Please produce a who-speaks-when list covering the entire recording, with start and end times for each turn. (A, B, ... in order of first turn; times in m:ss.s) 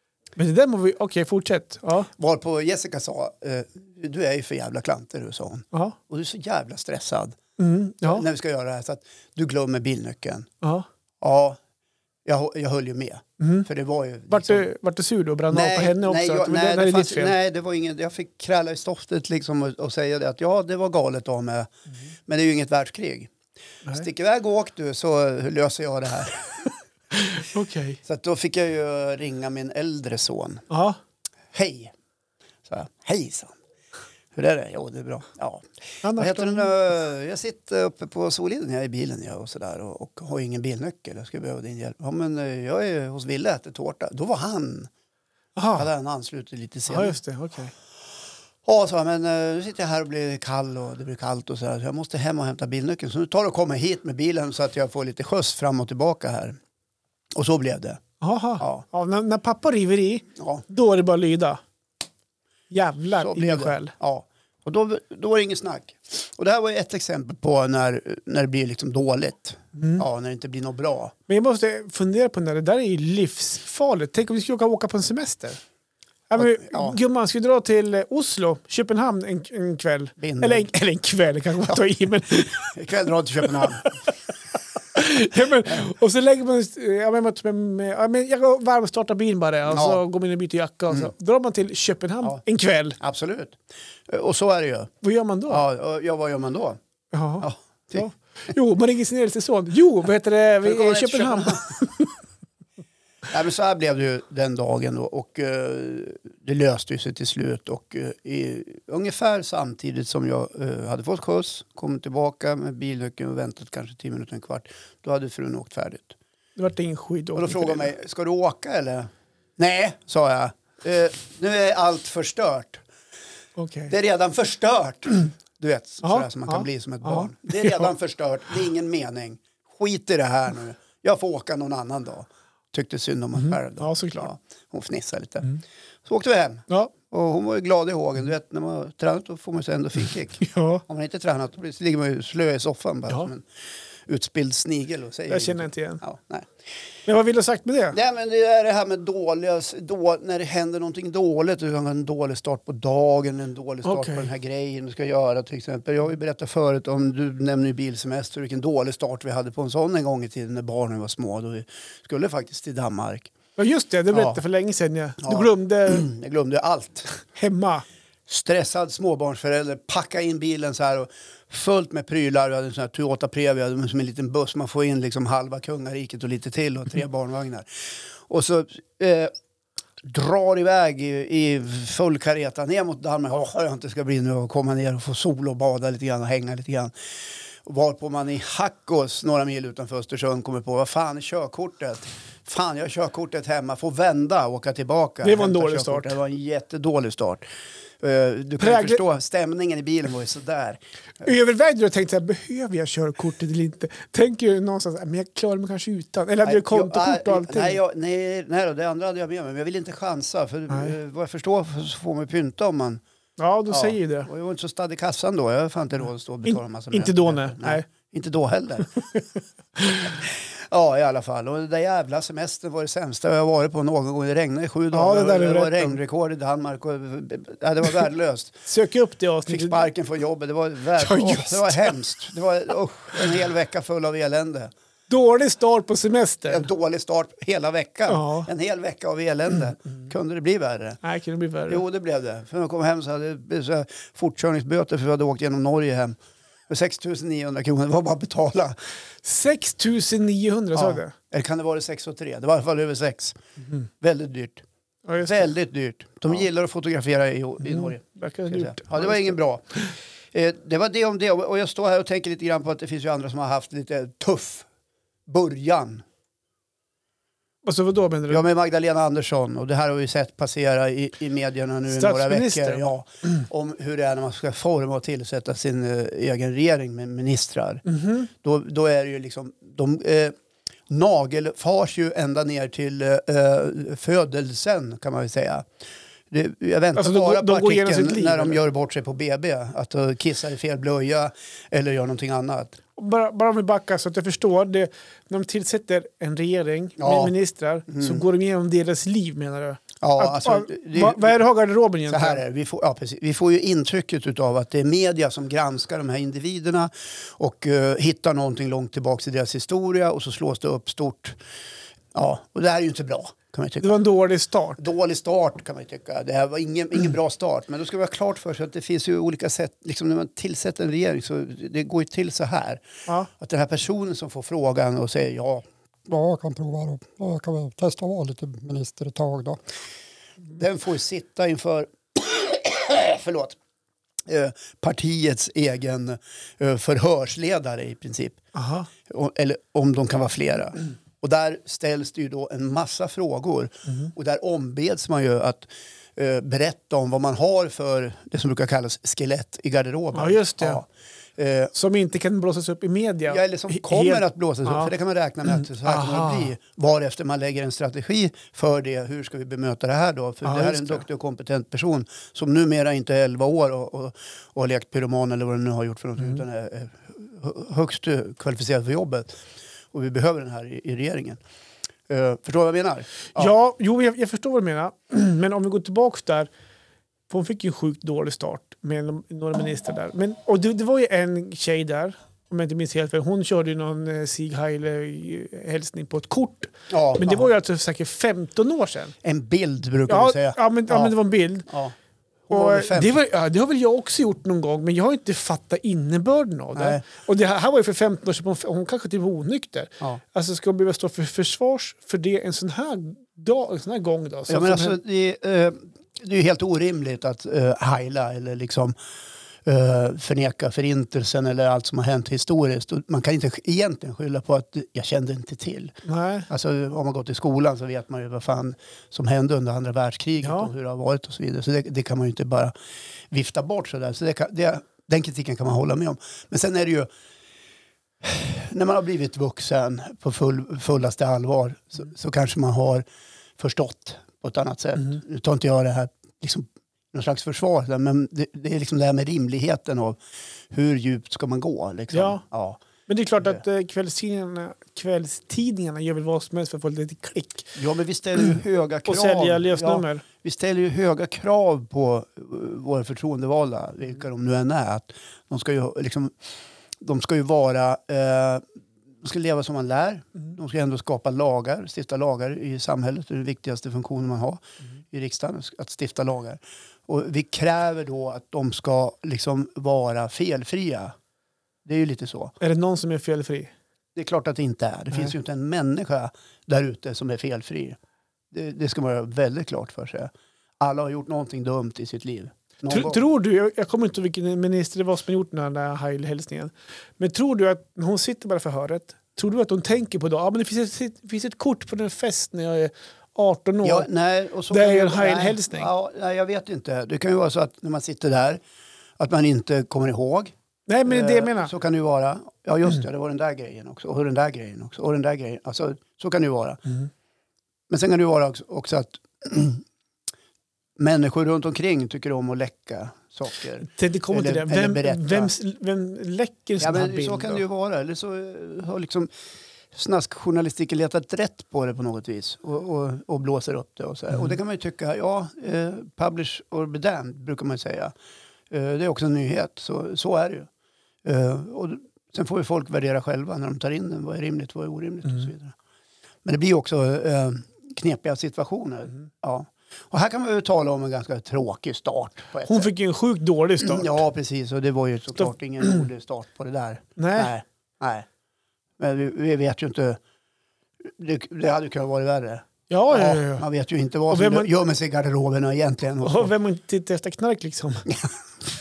0:00.4-0:02.1 A
0:02.2-0:07.4 B
0:07.6-0:08.2 A
0:08.0-0:10.5 B
0:11.2-0:11.6 B
0:12.2-0:14.7 B
0:13.4-0:13.7 A
0:14.3-0:17.4 A
0:15.5-0:21.7 B
0:22.3-0:23.3 B
0:23.9-0:26.7 B
0:27.2-0:28.0 A
0:28.0-0:30.6 B
0:30.7-0:31.0 A
0:31.5-0:31.9 B
0:32.7-0:33.6 B
0:34.4-0:44.9 B
0:36.0-0:36.7 A
0:45.6-0:45.9 A
0:45.8-0:47.2 B
0:46.9-0:47.7 A
0:48.6-0:56.6 B
0:57.4-0:58.0 B
0:58.2-1:01.6 A
0:58.6-0:58.8 B
1:00.4-1:00.6 B
1:02.7-1:03.9 A
1:03.2-1:11.1 B
1:09.8-1:10.1 A
1:11.3-1:15.6 A
1:16.3-1:22.8 A
1:16.4-1:17.0 B
1:20.2-1:20.7 B
1:22.5-1:23.9 B
1:23.6-1:24.0 A
1:24.9-1:33.0 A
1:29.7-1:30.0 B
1:33.0-1:34.9 B
1:35.0-1:35.6 A
1:35.5-1:36.8 B
1:37.1-1:42.1 A
1:37.4-1:38.1 B
1:40.6-1:41.8 B
1:43.3-1:56.2 B
1:56.6-1:57.9 A
1:57.4-2:02.8 B
2:03.6-2:03.9 A
2:03.9-2:15.5 B
2:06.0-2:07.9 A
2:13.4-2:14.3 A
2:16.0-2:23.5 B
2:20.4-2:20.8 A
2:24.1-2:26.5 B
2:25.3-2:26.0 A
2:27.1-2:28.0 A
2:27.9-2:43.3 B
2:33.9-2:34.3 A
2:43.6-2:46.1 A
2:44.1-2:44.4 B
2:45.2-2:47.1 B
2:47.2-2:47.8 A
2:48.3-2:59.3 B
3:00.0-3:06.9 B
3:07.6-3:17.4 B
3:15.2-3:16.2 A
3:18.0-3:20.8 B
3:18.6-3:19.0 A
3:21.2-3:27.8 A
3:26.4-3:33.0 B
3:33.4-3:34.3 A
3:33.7-3:39.0 B
3:36.5-3:37.9 A
3:39.8-3:40.2 A
3:40.0-3:48.6 B
3:44.9-3:46.0 A
3:48.7-3:49.9 A
3:49.5-3:54.7 B
3:51.0-3:52.0 A
3:55.1-3:56.7 A
3:56.5-4:01.0 B
3:58.1-3:58.5 A
4:01.0-4:01.8 A
4:01.7-4:06.2 B
4:06.7-4:08.8 B
4:09.2-4:11.1 A
4:10.8-4:13.4 B
4:14.0-4:14.6 B
4:15.1-4:15.5 A
4:15.2-4:19.6 B
4:17.6-4:19.4 A
4:20.3-4:24.7 B
4:25.3-4:26.0 B
4:27.6-4:28.4 A
4:28.3-4:40.4 B
4:31.9-4:32.8 A
4:37.8-4:38.3 A
4:40.9-4:45.7 B
4:46.3-4:52.8 B
4:47.0-4:48.6 A
4:53.0-5:02.4 A
4:57.0-4:57.3 B
4:57.9-4:58.2 B
5:00.0-5:01.4 B
5:02.1-5:11.4 B
5:12.1-5:13.9 B
5:13.8-5:14.8 A
5:14.8-5:22.8 B
5:23.4-5:25.6 B
5:26.1-5:29.6 C
5:30.6-5:33.6 B
5:34.3-5:38.4 B
5:38.6-5:38.9 A
5:39.1-5:51.7 B
5:50.2-5:50.8 A
5:51.8-5:54.9 A
5:53.3-6:09.4 B
5:55.5-5:56.5 A
6:00.4-6:01.0 A
6:09.9-6:11.4 B
6:12.1-6:13.5 B
6:13.4-6:16.5 A
6:17.3-6:29.1 A
6:26.9-6:27.5 B
6:29.2-6:31.2 B
6:30.1-6:31.7 A
6:31.7-6:32.0 B
6:32.5-6:33.2 B
6:32.5-6:45.0 A
6:36.8-6:37.0 B
6:44.5-6:49.0 B
6:49.6-6:56.0 B
6:56.0-6:56.5 A
6:56.5-7:02.7 B
7:00.4-7:00.7 A
7:03.3-7:07.1 B
7:08.2-7:13.0 B
7:13.6-7:20.2 B
7:20.7-7:22.8 B
7:22.1-7:22.4 A
7:23.1-7:27.8 A
7:27.8-7:36.3 B
7:29.1-7:30.2 A
7:37.0-7:38.7 B
7:39.2-7:51.2 B
7:51.8-7:52.6 B
7:52.6-7:53.7 A
7:54.2-7:58.0 B
7:58.5-8:03.2 B
8:02.9-8:14.1 A
8:13.8-8:18.6 B
8:14.7-8:15.9 A
8:19.2-8:26.8 B
8:20.9-8:21.7 A
8:27.9-8:29.8 B
8:31.0-8:35.5 B
8:33.8-8:37.6 A
8:36.8-8:39.3 B
8:39.9-8:48.1 B
8:48.7-8:50.7 B
8:51.2-8:55.8 B
8:56.4-9:02.9 B
9:02.7-9:04.2 A
9:03.8-9:08.3 B
9:07.2-9:07.5 A
9:09.0-9:10.2 B
9:11.0-9:16.5 B
9:12.9-9:13.7 A
9:14.3-9:14.7 A
9:16.2-9:18.1 A